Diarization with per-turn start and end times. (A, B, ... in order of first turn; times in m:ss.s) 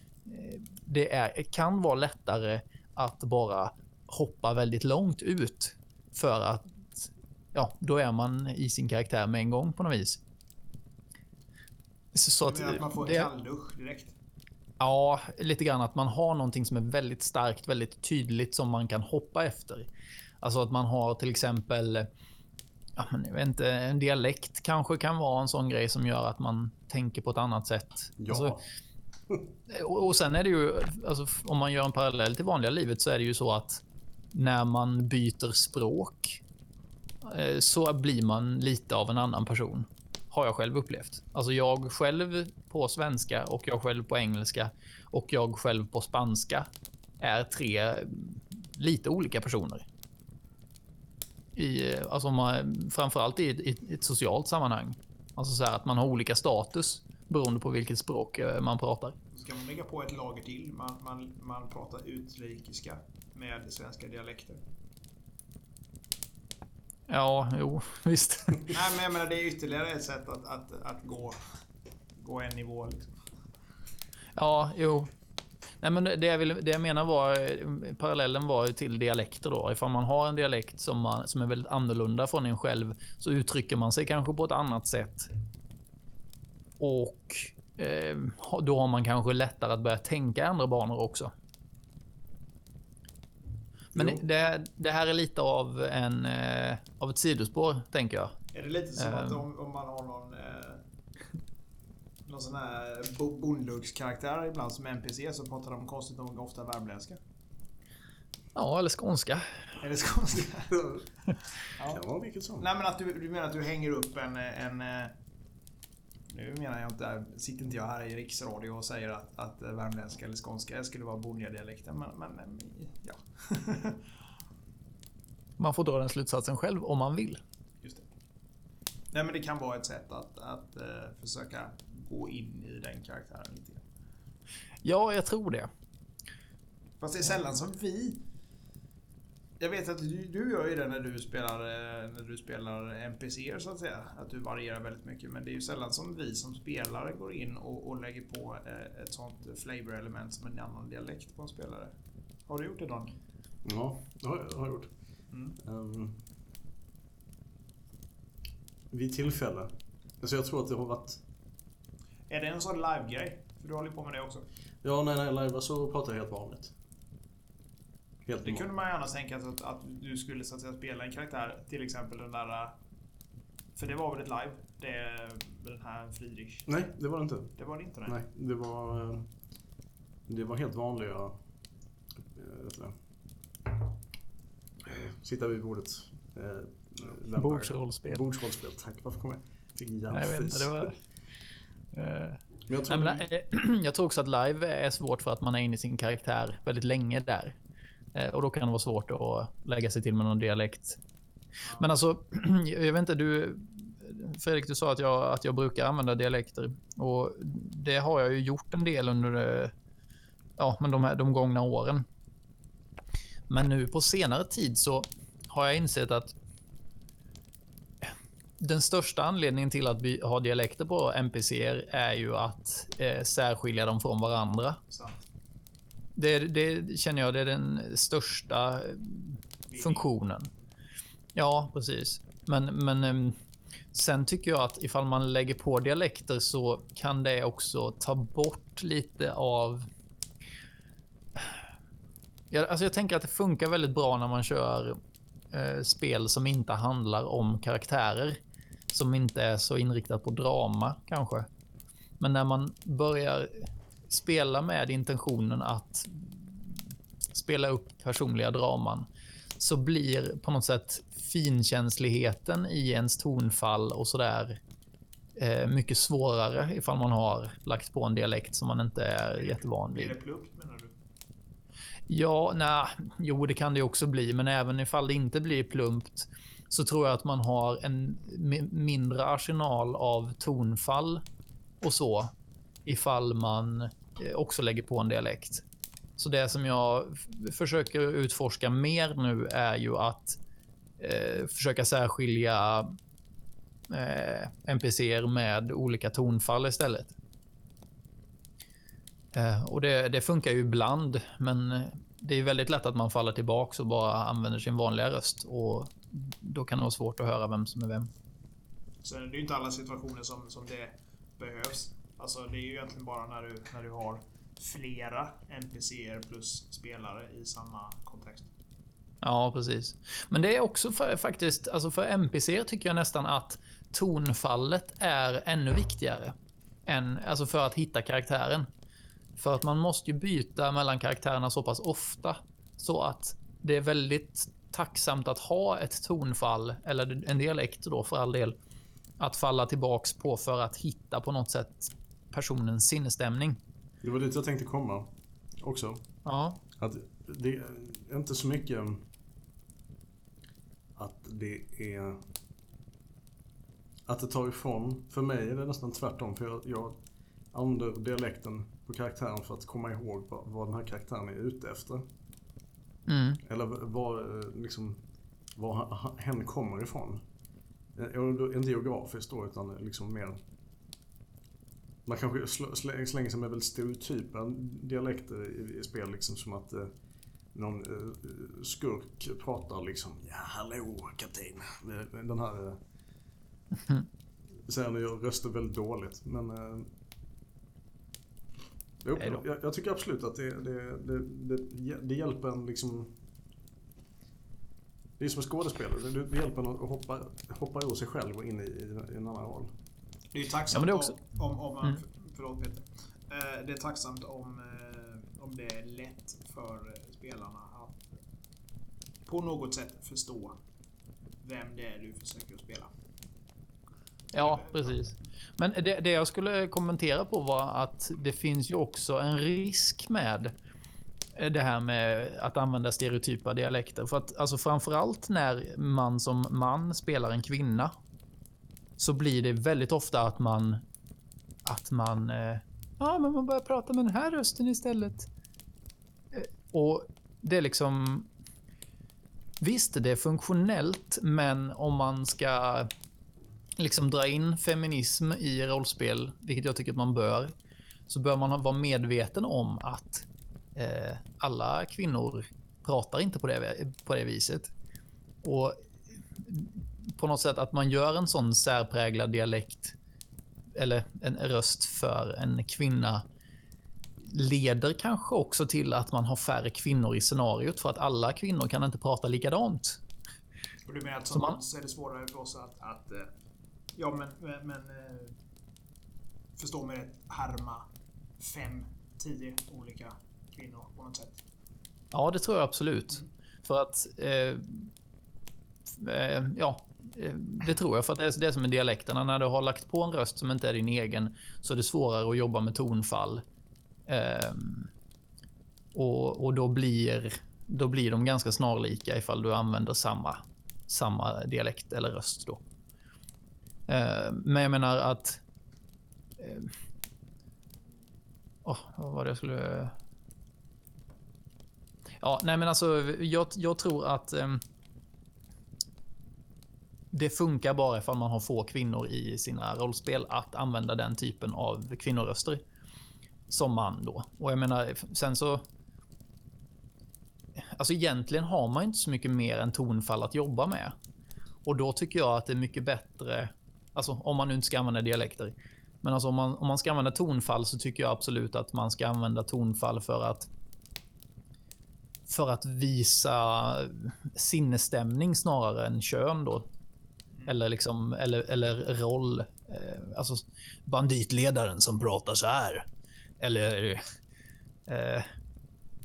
0:00.3-0:10.2 A
0:12.2-0:13.3 A
0:12.4-0:14.1 B
0:14.8-0:19.9 A
0:20.4-0:22.1 A
0:23.0-0:28.6 A
0:28.2-0:28.6 C
0:29.7-0:36.4 A
0:37.2-0:46.7 A
0:47.2-0:49.8 A
0:51.6-0:59.2 A
0:59.3-1:04.6 B
1:07.1-1:08.7 A
1:08.7-1:11.4 B
1:12.2-1:13.2 B
1:14.4-1:15.1 A
1:15.8-1:25.3 A
1:26.8-1:31.3 A
1:33.9-1:34.2 C
1:33.9-1:38.4 A
1:38.5-1:40.8 B
1:39.0-1:39.4 A
1:42.2-1:47.2 B
1:48.6-1:49.5 A
1:49.8-1:50.8 B
1:50.7-1:51.0 C
1:51.8-1:52.7 C
1:52.6-1:55.1 B
1:56.3-2:04.0 B
2:05.6-2:07.4 A
2:09.1-2:13.8 B
2:14.8-2:15.7 A
2:17.0-2:18.2 B
2:19.6-2:31.9 B
2:32.5-2:33.2 B
2:33.6-2:34.9 C
2:35.3-2:35.6 B
2:35.6-2:36.2 C
2:38.9-2:41.2 C
2:42.3-2:44.4 B
2:44.8-2:46.7 C
2:48.3-2:48.7 C
2:48.4-2:52.7 B
2:53.8-2:56.8 B
2:56.7-2:59.3 C
2:57.6-2:58.2 B
3:00.3-3:01.4 C
3:02.3-3:03.0 C
3:04.8-3:11.0 C
3:07.4-3:08.2 A
3:10.1-3:11.0 A
3:11.9-3:17.6 A
3:12.7-3:13.3 C
3:18.2-3:21.0 A
3:21.8-3:29.7 A
3:30.6-3:32.0 A
3:33.5-3:36.3 A
3:38.6-3:44.8 A
3:44.9-3:45.2 B
3:46.2-3:50.5 A
3:49.7-3:50.0 B
3:51.4-3:53.4 A
3:53.9-3:59.9 A
4:02.5-4:05.0 A
4:05.5-4:08.4 A
4:08.9-4:11.5 A
4:12.2-4:16.8 A
4:17.3-4:19.1 A
4:19.6-4:24.6 A
4:25.4-4:30.2 A
4:29.3-4:30.9 B
4:32.1-4:41.2 A
4:41.8-4:42.3 A
4:42.9-4:45.6 A
4:46.2-4:50.4 A
4:51.0-4:53.0 A
4:53.9-4:57.1 A
4:59.3-5:08.1 A
5:09.0-5:18.5 B
5:19.2-5:26.4 A
5:26.9-5:28.7 A
5:29.4-5:38.6 A
5:39.2-5:43.6 A
5:44.0-5:46.0 C
5:46.2-5:46.6 A
5:46.8-5:49.0 C
5:51.0-5:52.2 C
5:54.1-5:57.0 C
5:57.5-6:02.0 C
6:03.1-6:03.4 A
6:03.4-6:05.0 C
6:05.6-6:07.2 C
6:08.0-6:10.4 C
6:12.0-6:16.9 C
6:17.5-6:22.8 C
6:24.7-6:26.9 C
6:29.0-6:33.1 C
6:29.2-6:29.4 A
6:35.2-6:39.7 C
6:40.3-6:48.0 B
6:40.7-6:41.2 A
6:49.3-6:50.6 B
6:51.4-6:52.9 B
6:54.3-7:00.5 A
6:54.4-6:55.0 B
7:01.4-7:07.9 A
7:09.0-7:10.8 A
7:11.7-7:15.3 A
7:16.3-7:18.3 A
7:19.6-7:22.9 A
7:23.8-7:27.5 A
7:28.1-7:34.7 A
7:35.4-7:35.8 A
7:36.4-7:40.0 A
7:40.8-7:43.2 A
7:44.2-7:50.0 A
7:50.9-7:53.3 B
7:51.3-7:51.6 A
7:54.0-7:55.3 B
7:56.6-7:57.8 B
7:58.4-8:01.4 B
8:02.1-8:04.9 A
8:06.0-8:13.4 A
8:14.1-8:14.9 A
8:15.9-8:22.6 A
8:23.9-8:25.4 A
8:26.4-8:26.7 A
8:28.6-8:30.0 A
8:32.2-8:34.6 A
8:37.1-8:42.6 A
8:43.5-8:45.6 A
8:47.7-8:50.9 A
8:51.6-9:00.5 A
9:02.3-9:06.7 A
9:07.5-9:12.9 A
9:13.4-9:14.0 A
9:14.9-9:15.3 A